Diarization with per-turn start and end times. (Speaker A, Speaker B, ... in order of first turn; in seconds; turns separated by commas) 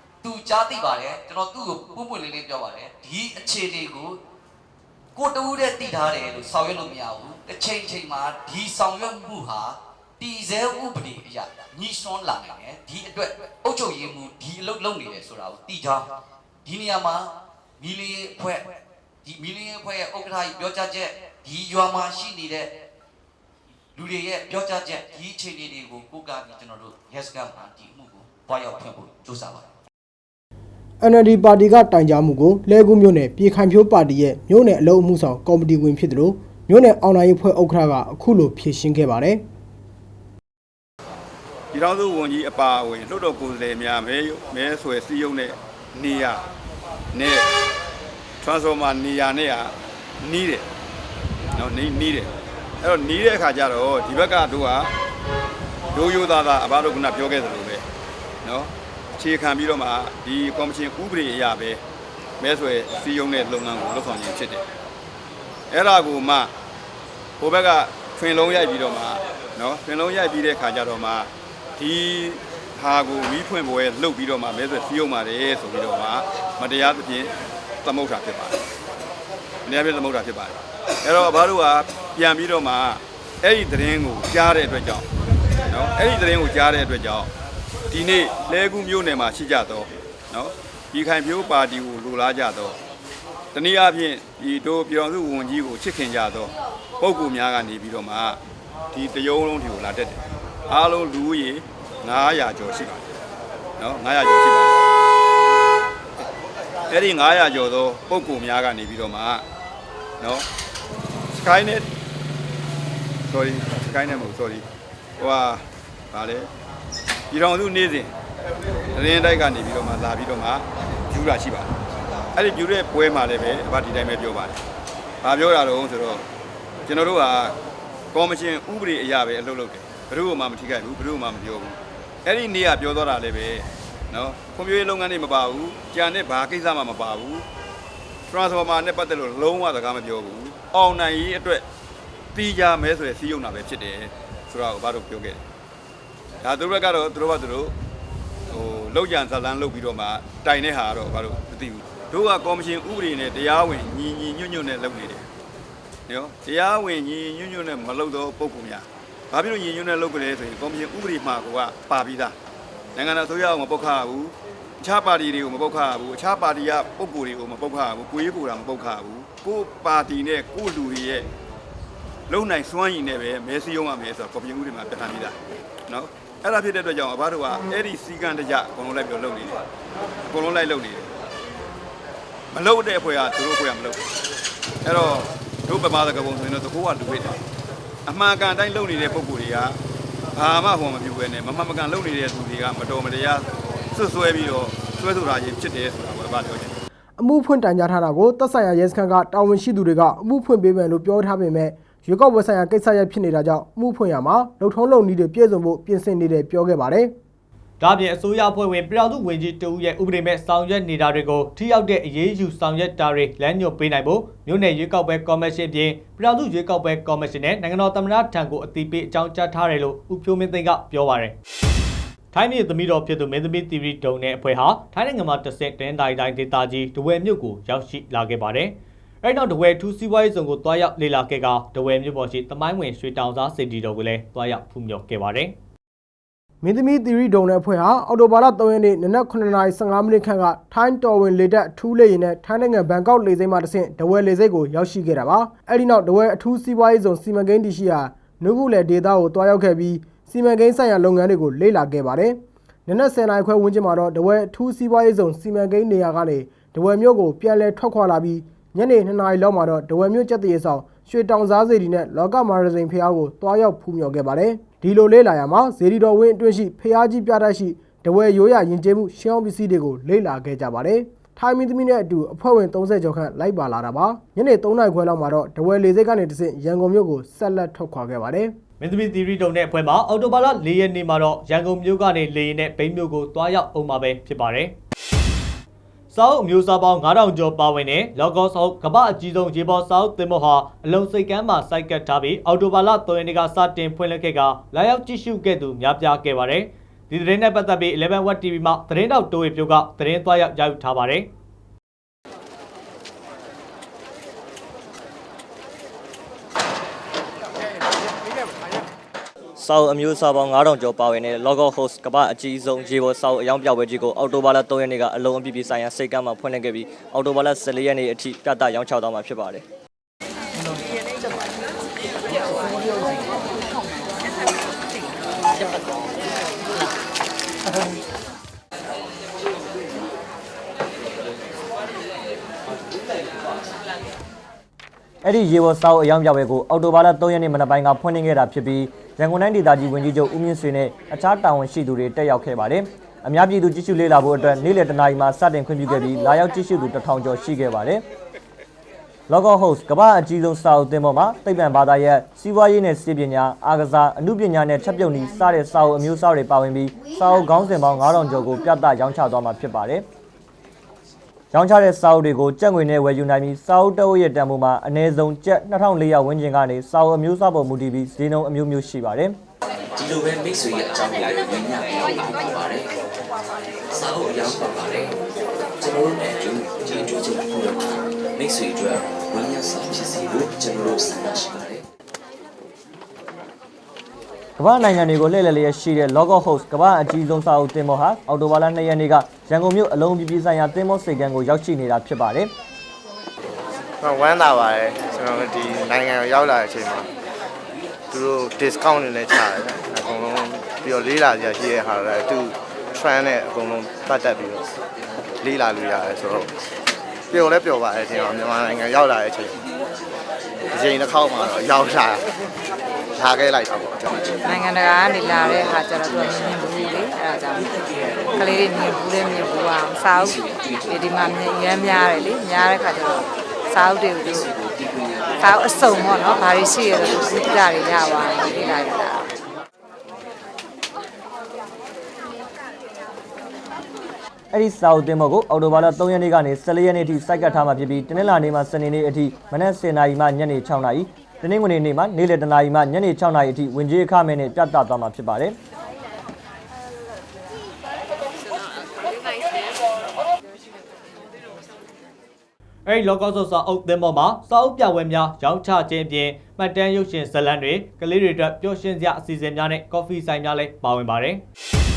Speaker A: 0.2-4.2, Speaker A: 5.1-16.1, Speaker A: 16.6-17.2, Speaker A: 17.8-18.6, Speaker A: 19.2-22.7, Speaker A: 23.9-29.6, Speaker B: 31.0-39.4, Speaker C: 41.7-46.4, Speaker C: 47.1-47.5, Speaker C: 48.4-50.7, Speaker C: 51.5-52.3, Speaker C: 52.8-54.9, Speaker C: 55.9-57.8, Speaker C: 58.4-61.8, Speaker C: 62.4-64.6, Speaker C: 65.7-66.5, Speaker C: 67.4-77.3, Speaker C: 77.8-78.6, Speaker C: 79.7-85.0, Speaker C: 85.7-87.3, Speaker C: 87.9-92.8, Speaker C: 93.5-98.4, Speaker C: 98.9-103.1, Speaker C: 103.8-104.8, Speaker C: 106.9-109.4, Speaker C: 110.2-110.5, Speaker C: 111.3-111.9, Speaker C: 113.3-114.6, Speaker C: 115.2-116.5, Speaker C: 117.3-118.1, Speaker C: 118.9-121.8, Speaker C: 122.3-124.6, Speaker C: 125.2-126.2, Speaker C: 126.9-127.5, Speaker C: 128.1-137.4, Speaker C: 138.3-141.6, Speaker C: 142.3-145.4, Speaker C: 146.4-147.7, Speaker C: 148.5-155.3, Speaker C: 156.1-162.3, Speaker C: 162.9-171.3, Speaker C: 172.3-175.4, Speaker C: 175.9-179.6, Speaker C: 180.3-181.3, Speaker C: 182.5-184.0, Speaker C: 184.8-187.4, Speaker C: 188.1-189.8, Speaker C: 190.3-196.8, Speaker B: 197.2-207.1, Speaker D: 207.8-221.4, Speaker D: 222.3-235.5, Speaker B: 236.6-278.5, Speaker D: 278.8-284.7, Speaker D: 286.1-301.3, Speaker E: 309.6-319.6, Speaker E: 335.2-348.0, Speaker E: 349.3-360.1, Speaker E: 361.5-369.4, Speaker F: 369.9-372.9, Speaker F: 373.9-375.1, Speaker F: 375.8-381.8, Speaker E: 384.6-392.5, Speaker G: 394.0-397.1, Speaker G: 398.1-404.6, Speaker G: 405.4-406.5, Speaker G: 407.3-409.6, Speaker G: 410.7-412.2, Speaker G: 413.1-414.2, Speaker H: 414.4-417.7, Speaker F: 415.4-417.0, Speaker F: 417.7-418.3, Speaker H: 418.3-424.5, Speaker F: 420.2-421.3, Speaker F: 424.3-426.1, Speaker H: 425.4-429.3, Speaker E: 434.5-445.6, Speaker D: 452.9-461.4